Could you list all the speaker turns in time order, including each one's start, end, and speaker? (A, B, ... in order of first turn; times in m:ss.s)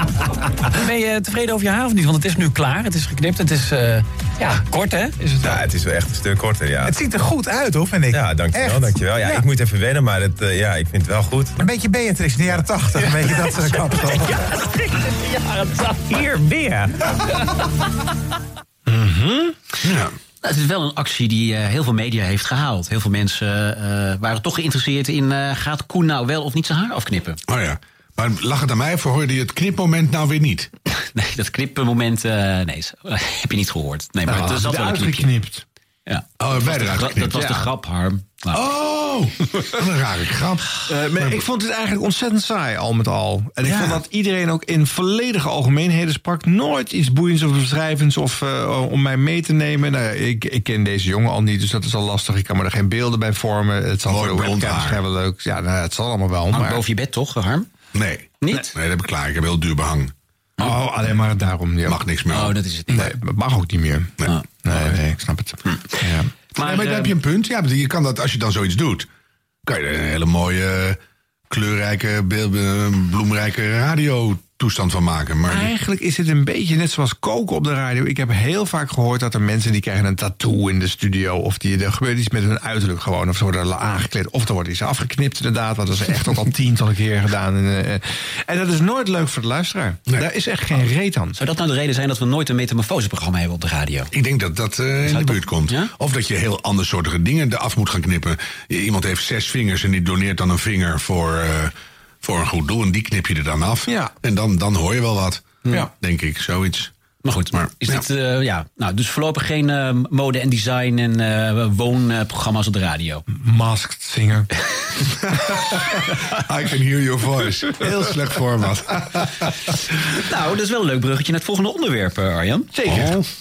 0:00.7-0:05.6 A
0:05.4-0:07.0 B
0:06.8-0:09.4 C
0:08.1-0:11.6 B
0:11.6-0:14.3 C
0:16.1-0:16.8 B
0:18.9-0:19.6 D
0:19.8-0:20.1 E
0:20.4-0:27.4 F
0:27.5-0:30.7 E
0:31.0-0:35.3 F
0:34.3-0:35.6 D
0:36.1-0:38.6 F
0:36.4-0:37.7 E
0:38.5-0:41.4 E
0:40.9-0:56.8 D
0:54.1-0:55.0 E
0:56.5-0:57.7 F
0:57.9-1:00.1 E
0:58.4-0:58.7 F
1:00.6-1:02.0 D
1:01.9-1:02.6 E
1:02.3-1:03.1 F
1:02.9-1:06.3 D
1:04.3-1:04.9 F
1:05.7-1:06.0 F
1:06.6-1:07.2 F
1:06.6-1:09.1 E
1:09.7-1:11.0 E
1:11.5-1:15.7 E
1:15.5-1:31.4 D
1:31.4-1:34.1 F
1:34.1-1:46.9 E
1:35.0-1:35.9 F
1:43.9-1:44.1 D
1:47.2-1:53.2 F
1:47.5-1:48.0 E
1:53.3-1:54.5 D
1:56.3-1:59.4 E
2:00.3-2:02.7 F
2:02.7-2:03.2 D
2:02.9-2:03.2 E